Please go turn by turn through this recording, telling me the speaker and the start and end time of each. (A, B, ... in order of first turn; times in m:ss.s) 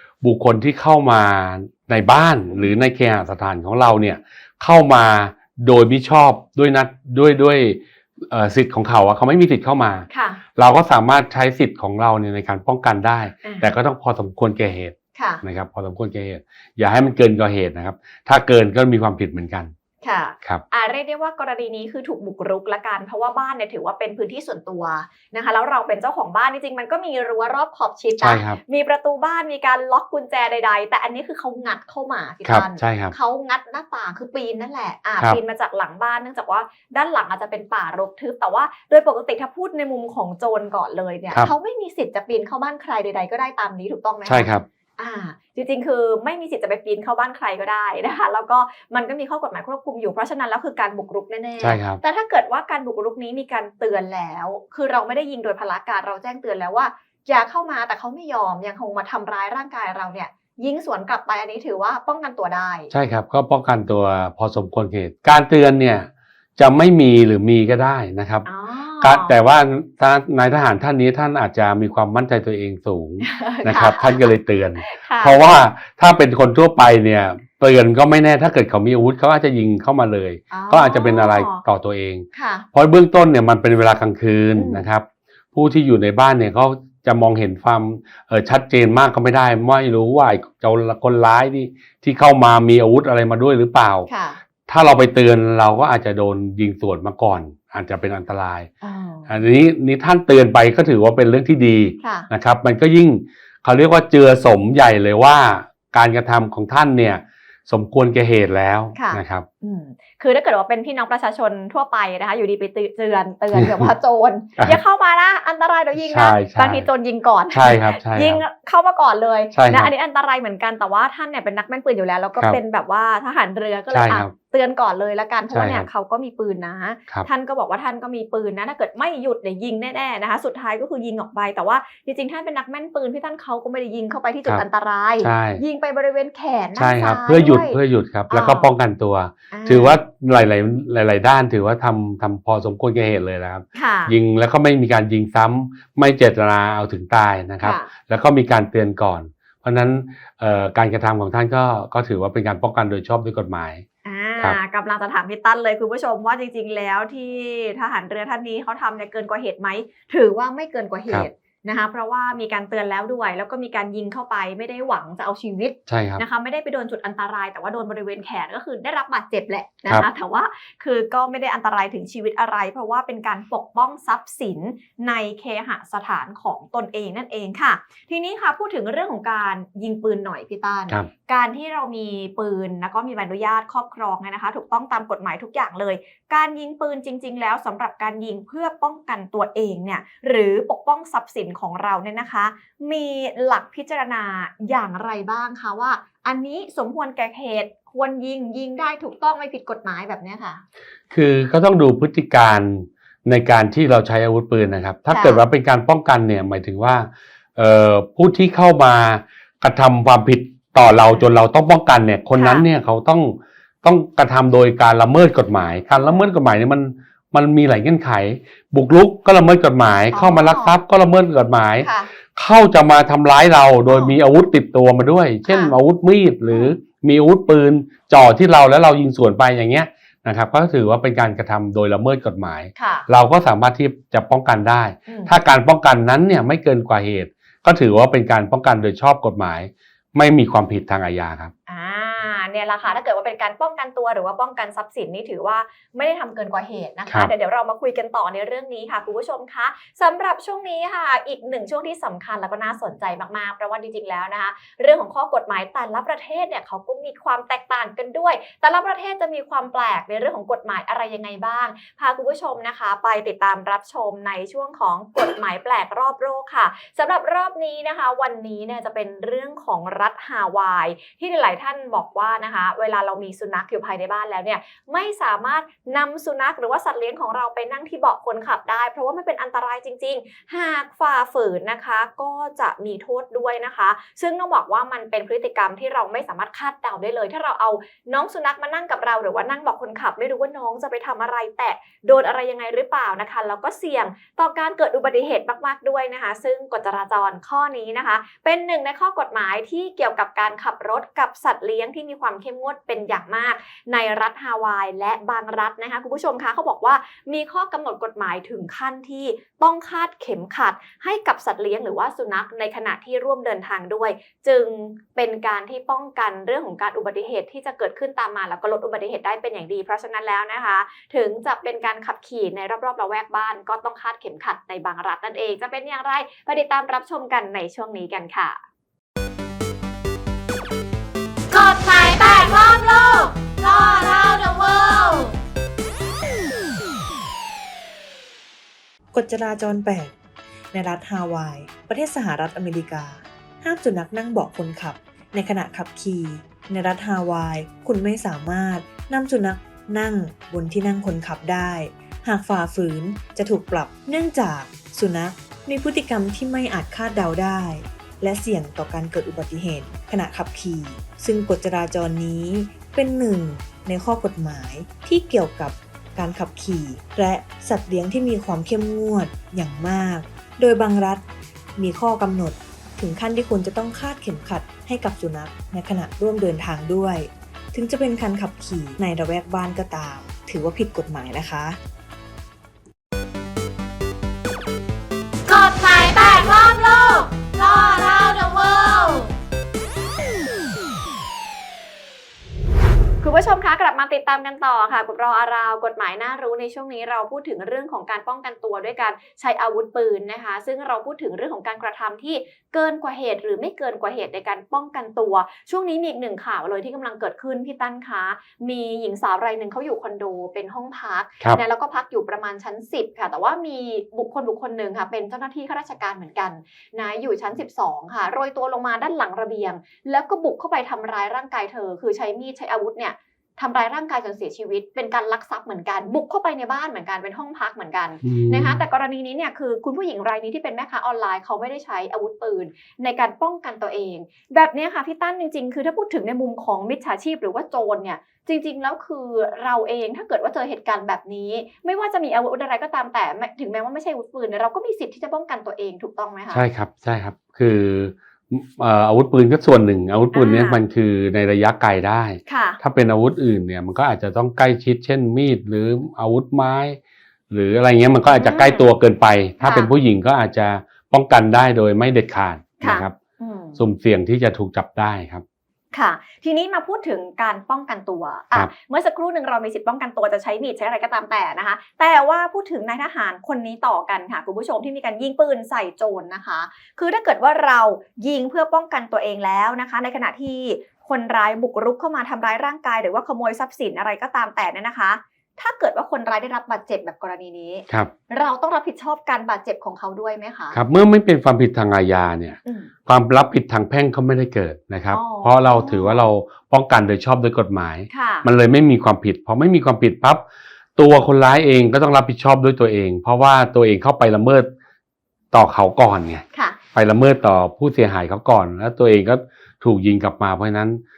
0:00.2-0:19.7 A
0:10.1-0:10.4 B
0:13.4-0:13.7 B
0:15.2-0:15.4 B
0:20.0-1:02.9 B
0:28.2-0:28.6 A
0:32.4-0:33.2 A
0:44.3-0:44.6 A
0:51.6-0:52.0 A
1:02.9-1:08.5 A
1:08.5-1:09.4 B
1:09.0-1:34.1 A
1:13.2-1:15.4 B
1:20.5-1:21.6 B
1:22.3-1:22.6 B
1:24.6-1:24.9 B
1:34.1-1:34.4 B
1:34.7-1:38.7 A
1:38.8-1:39.4 B
1:39.3-1:49.5 A
1:42.0-1:42.3 B
1:49.0-2:17.8 B
1:53.5-1:53.9 A
1:56.0-1:56.9 A
1:57.5-1:58.4 A
1:59.5-1:59.9 A
2:03.9-2:04.3 A
2:05.5-2:05.9 A
2:15.2-2:15.6 A
2:16.8-2:33.8 A
2:18.3-2:18.7 B
2:19.5-2:20.0 B
2:23.8-2:24.2 B
2:27.6-2:27.9 B
2:34.0-3:20.6 B
2:45.9-2:46.2 A
3:21.1-4:01.5 A
3:25.1-3:25.4 B
3:32.4-3:32.6 B
3:36.0-3:36.3 B
3:40.1-3:40.8 B
3:41.8-3:42.1 B
3:43.9-3:44.2 B
3:45.5-3:45.7 B
3:46.5-3:46.8 B
3:52.8-3:53.1 B
3:55.1-3:55.3 B
4:01.7-5:28.6 B
5:31.5-5:35.3 C
5:39.1-5:40.1 D
5:40.7-6:11.3 D
6:11.8-6:21.8 D
6:25.5-6:29.3 C
6:33.2-7:26.6 B
7:08.2-7:08.8 A
7:26.5-7:37.0 A
7:30.3-7:30.8 B
7:32.5-7:32.8 B
7:37.5-7:43.2 A
7:38.3-7:38.9 B
7:39.6-7:39.9 B
7:42.8-7:43.8 B
7:43.8-7:45.4 A
7:45.9-8:10.8 B
8:10.7-8:20.4 A
8:12.7-8:12.9 B
8:15.1-8:16.2 B
8:18.1-8:18.5 B
8:21.0-8:24.7 A
8:25.5-8:31.0 A
8:26.5-8:26.8 B